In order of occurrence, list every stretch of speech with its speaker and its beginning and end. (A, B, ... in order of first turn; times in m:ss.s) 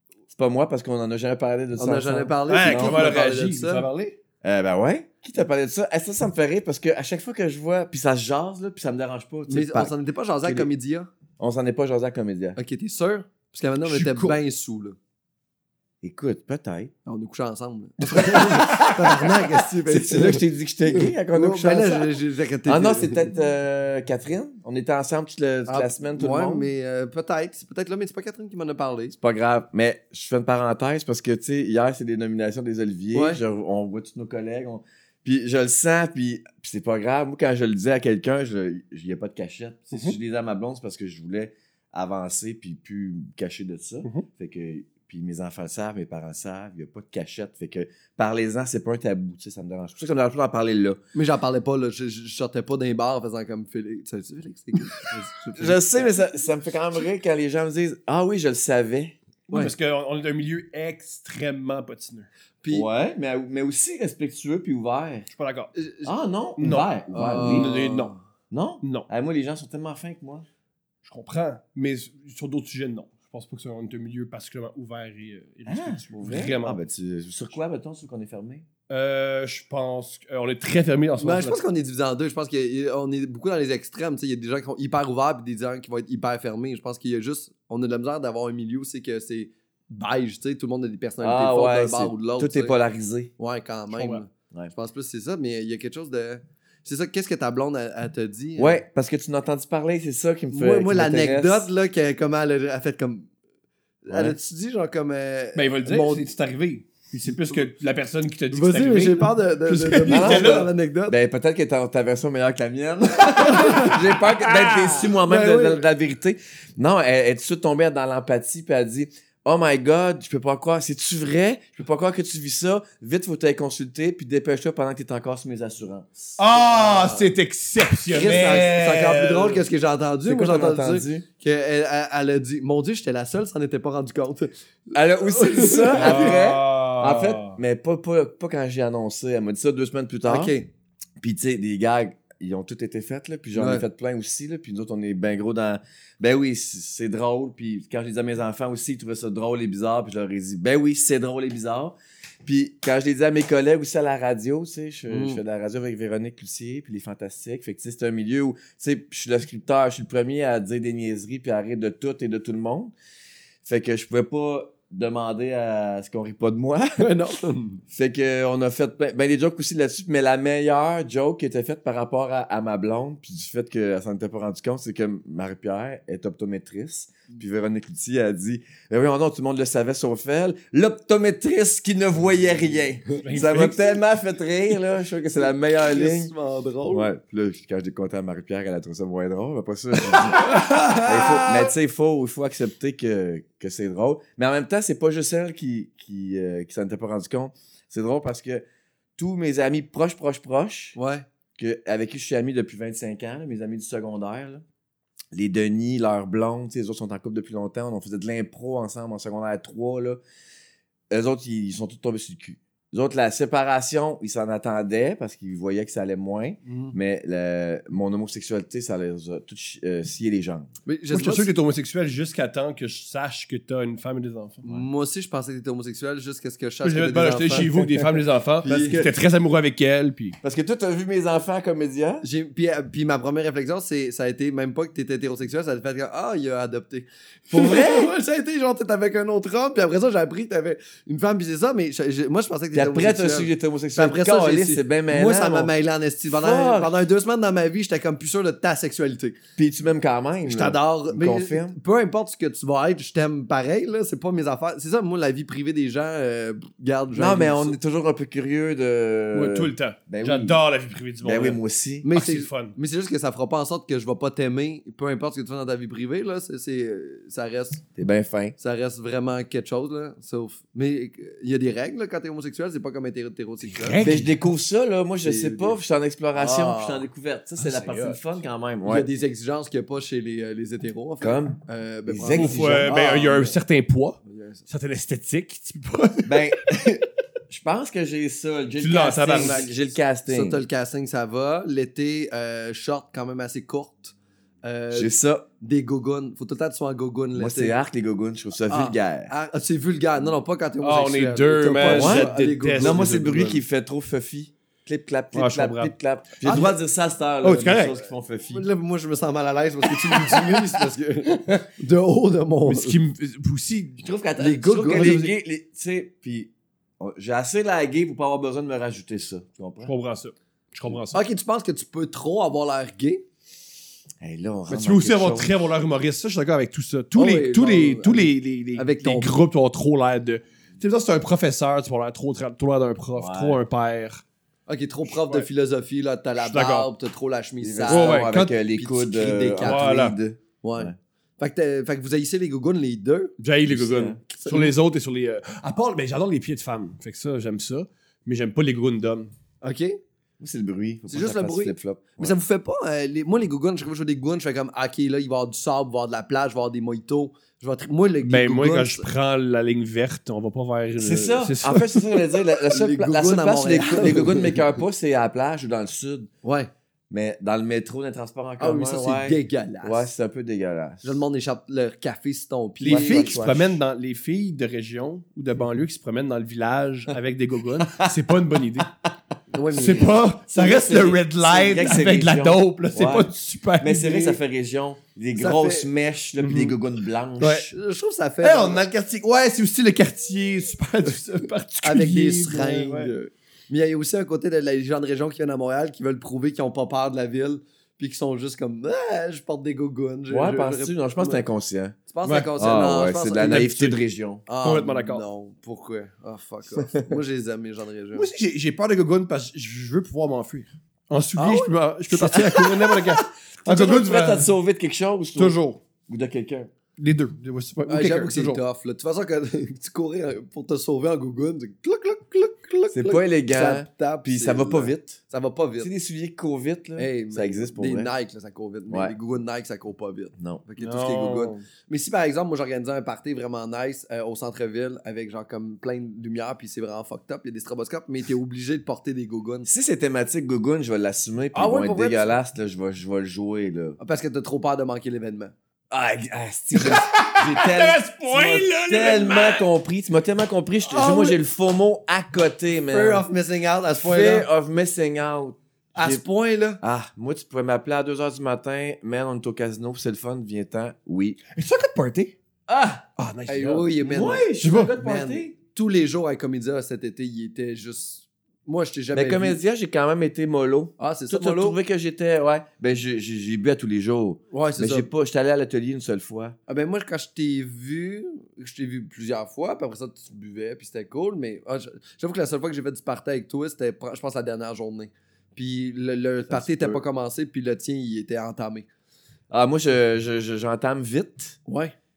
0:00.3-0:03.0 A
0:01.8-0:03.8 B
0:02.5-0:04.2 C
0:04.4-0:10.7 A
0:09.5-0:11.1 B
0:11.4-0:12.6 A
0:12.6-0:15.0 B
0:13.8-0:14.4 C
0:16.0-0:16.9 A
0:17.0-0:23.3 B
0:18.0-0:26.7 A
0:25.7-0:29.2 B
0:29.2-0:51.0 A
0:33.1-0:33.4 B
0:51.1-0:56.1 B
0:55.5-0:59.2 A
0:59.5-0:59.7 B
0:59.5-1:02.3 C
1:02.6-1:02.9 B
1:02.7-1:05.3 A
1:05.3-1:05.7 C
1:05.7-1:06.1 B
1:06.0-1:07.8 A
1:06.6-1:08.1 C
1:07.1-1:08.2 B
1:08.5-1:10.4 A
1:08.8-1:09.1 C
1:11.0-1:16.8 C
1:15.7-1:18.6 A
1:18.9-1:21.6 C
1:21.2-1:32.7 B
1:31.2-1:33.3 A
1:33.4-1:38.8 B
1:33.9-1:34.2 C
1:38.6-1:41.7 A
1:40.5-1:43.3 B
1:44.0-1:46.3 B
1:45.5-1:50.7 C
1:48.5-1:51.1 B
1:50.1-2:06.1 A
1:53.4-1:55.2 C
1:53.5-1:53.9 B
1:55.2-1:55.8 B
2:06.4-2:09.6 C
2:06.6-2:07.3 B
2:08.1-2:16.3 B
2:08.2-2:08.8 A
2:10.2-2:11.2 A
2:14.9-2:20.5 A
2:15.9-2:17.6 C
2:20.2-2:20.7 B
2:21.2-2:42.9 A
2:23.5-2:23.8 B
2:35.1-2:35.4 B
2:43.6-2:47.0 A
2:47.0-2:47.8 B
2:47.9-3:06.3 A
3:03.2-3:03.9 C
3:05.8-3:07.1 B
3:06.9-3:18.6 A
3:10.3-3:11.6 B
3:10.5-3:11.0 C
3:19.2-3:21.0 A
3:20.9-3:21.2 B
3:21.6-3:24.6 A
3:25.3-3:30.2 A
3:31.1-3:40.7 A
3:36.6-3:36.9 B
3:40.8-3:41.5 B
3:41.1-3:44.6 C
3:44.6-3:48.1 B
3:46.8-3:50.4 C
3:48.6-3:49.1 B
3:48.7-3:49.0 A
3:50.4-3:52.2 A
3:52.2-4:09.4 B
3:57.5-3:58.1 A
4:02.7-4:05.7 A
4:06.3-4:06.9 A
4:09.6-4:11.8 A
4:10.4-4:17.8 B
4:17.1-4:20.6 A
4:19.3-4:21.6 C
4:21.2-4:22.1 A
4:22.0-4:27.8 B
4:22.1-4:22.8 C
4:27.9-4:28.6 A
4:28.6-4:34.0 B
4:33.6-4:34.3 C
4:34.0-4:39.1 A
4:35.2-4:35.8 B
4:36.3-4:37.1 B
4:37.6-4:38.2 C
4:38.8-4:43.6 B
4:41.2-4:43.0 A
4:42.3-4:46.5 C
4:44.2-4:44.6 B
4:46.2-4:50.6 A
4:48.8-4:49.7 C
4:49.3-4:49.7 B
4:50.3-4:57.7 B
4:54.9-4:55.4 A
4:57.3-4:59.3 A
4:58.7-5:03.0 B
5:00.8-5:03.6 C
5:01.9-5:08.6 A
5:05.3-5:05.9 C
5:06.4-5:06.7 B
5:07.4-5:08.0 C
5:08.5-5:13.0 B
5:10.1-5:10.8 A
5:12.6-5:14.0 C
5:14.0-5:19.9 A
5:14.4-5:15.3 B
5:19.8-5:21.2 C
5:21.1-5:23.2 B
5:24.2-5:25.5 A
5:24.7-5:34.2 C
5:27.1-5:29.3 B
5:33.2-5:33.6 A
5:34.7-5:39.9 B
5:35.1-5:35.5 C
5:36.4-5:36.9 C
5:37.6-5:41.0 A
5:37.9-5:38.5 C
5:39.6-5:40.2 C
5:40.6-5:43.3 B
5:43.4-5:49.3 C
5:43.7-5:44.2 A
5:44.3-5:44.7 B
5:49.6-5:50.0 B
5:50.4-5:52.3 A
5:51.1-5:59.0 B
5:58.2-6:01.9 C
6:01.0-6:06.3 A
6:02.7-6:04.7 B
6:06.4-6:06.7 B
6:07.1-6:11.2 A
6:08.6-6:10.1 B
6:11.0-6:13.4 B
6:12.8-6:18.9 C
6:12.9-6:13.8 A
6:17.8-6:18.1 A
6:19.5-6:20.2 B
6:19.7-6:24.4 C
6:20.5-6:27.7 A
6:25.4-6:25.9 B
6:26.4-6:26.8 C
6:27.4-6:27.7 C
6:27.7-6:28.8 B
6:28.4-6:33.1 C
6:31.8-6:41.4 B
6:40.3-6:42.0 A
6:42.1-6:43.6 B
6:42.2-6:42.5 C
6:42.6-6:44.4 A
6:43.4-6:44.0 C
6:44.5-6:48.3 B
6:44.6-6:45.2 C
6:48.1-6:54.5 C
6:51.4-6:51.7 B
6:52.2-6:56.7 A
6:55.4-6:55.8 C
6:57.0-6:58.6 C
6:57.9-7:05.9 B
7:02.9-7:05.2 A
7:05.8-7:08.1 A
7:07.0-7:19.7 B
7:08.9-7:09.1 A
7:10.4-7:10.6 A
7:10.8-7:11.6 C
7:19.6-7:24.0 A
7:21.5-7:22.4 B
7:24.0-7:25.5 B
7:25.9-7:33.3 A
7:26.7-7:29.7 C
7:30.8-7:31.4 B
7:32.9-7:34.5 B
7:34.0-7:36.2 A
7:35.9-7:36.8 B
7:36.8-7:41.4 A
7:41.5-7:42.3 C
7:42.7-7:43.0 A
7:43.2-7:44.0 C
7:43.5-7:49.6 B
7:44.0-7:45.5 A
7:44.6-7:45.0 C
7:49.1-7:56.6 A
7:51.0-7:51.8 B
7:54.5-7:55.1 B
7:56.7-8:08.9 B
8:06.5-8:07.0 A
8:09.5-8:11.6 A
8:11.7-8:11.9 B